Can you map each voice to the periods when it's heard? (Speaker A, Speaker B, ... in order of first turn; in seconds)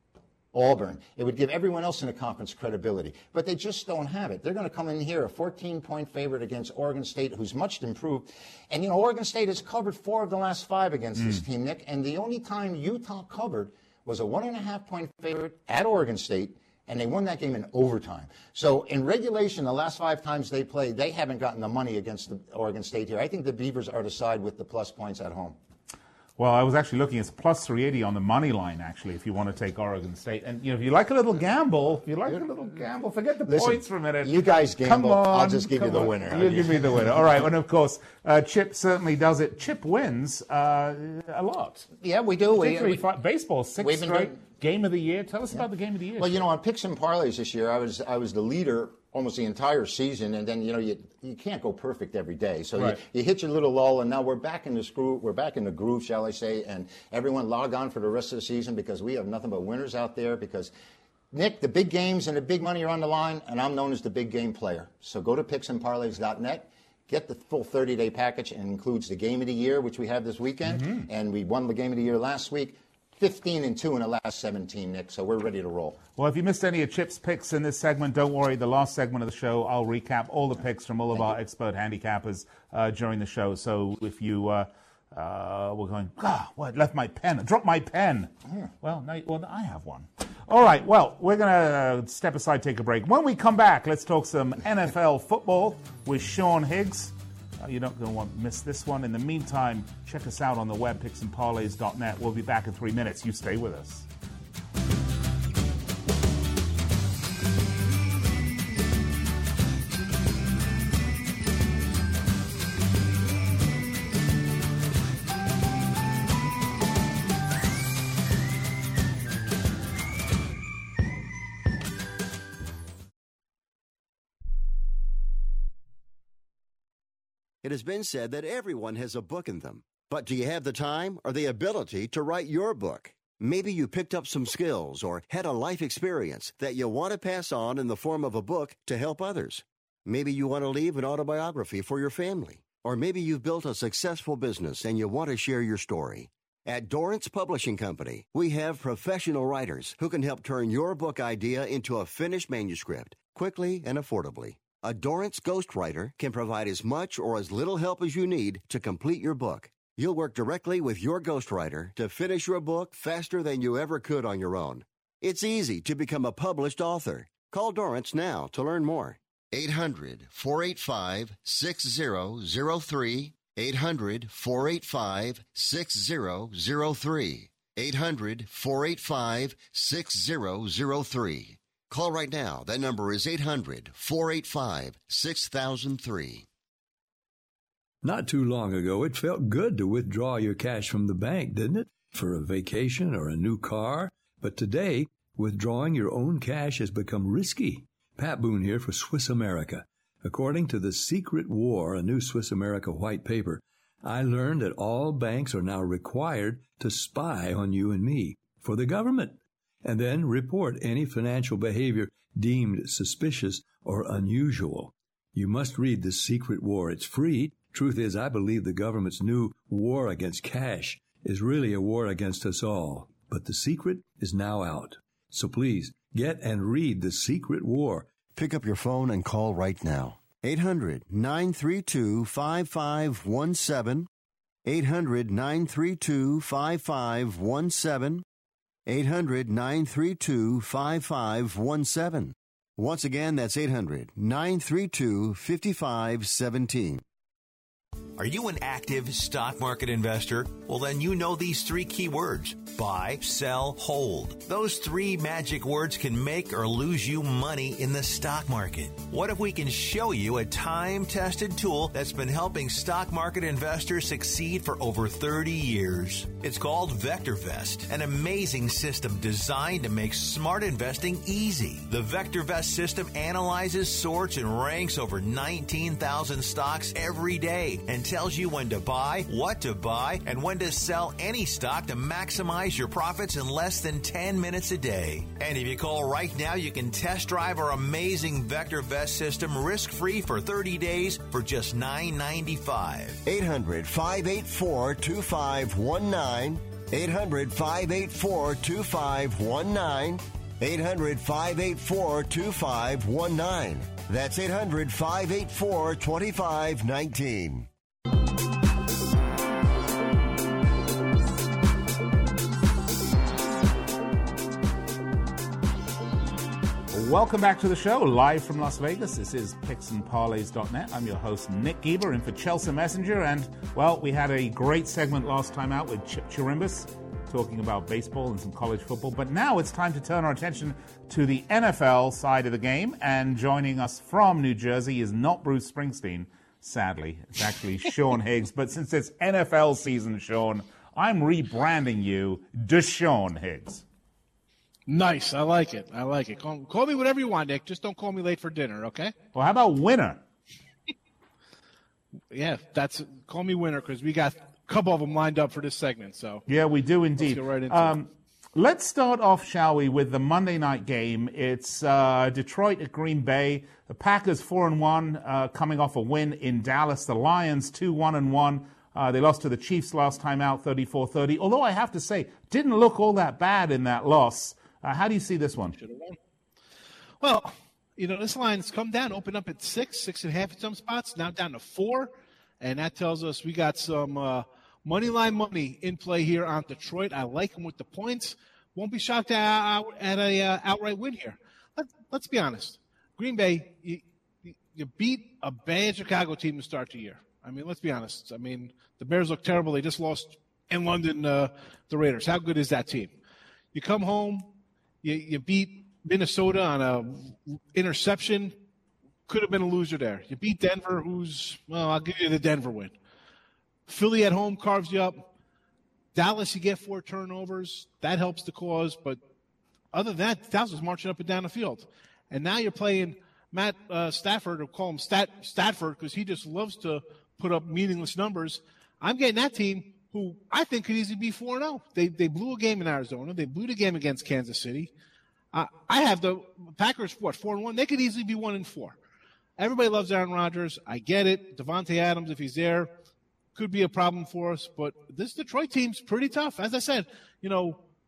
Speaker A: 0.5-25.6, 33.5-37.3, 42.0-43.1, 43.8-44.4, 46.2-60.7, 61.3-76.0
Speaker B: 26.4-41.9, 42.5-46.4, 70.8-71.0, 76.2-104.1, 316.9-343.8, 349.3-350.2, 356.5-375.8
Speaker C: 127.6-186.4, 228.3-234.1, 234.6-238.2, 238.8-247.0, 293.2-307.7
Speaker D: 188.0-228.2
Speaker E: 248.2-293.2
Speaker F: 344.9-349.1, 352.3-356.4, 357.2-358.0, 375.8-376.2, 377.2-403.1, 403.7-404.5, 405.0-408.6, 409.3-412.9, 413.9-415.3, 416.1-419.2, 419.9-434.9, 435.5-439.0, 439.6-442.9, 443.5-447.8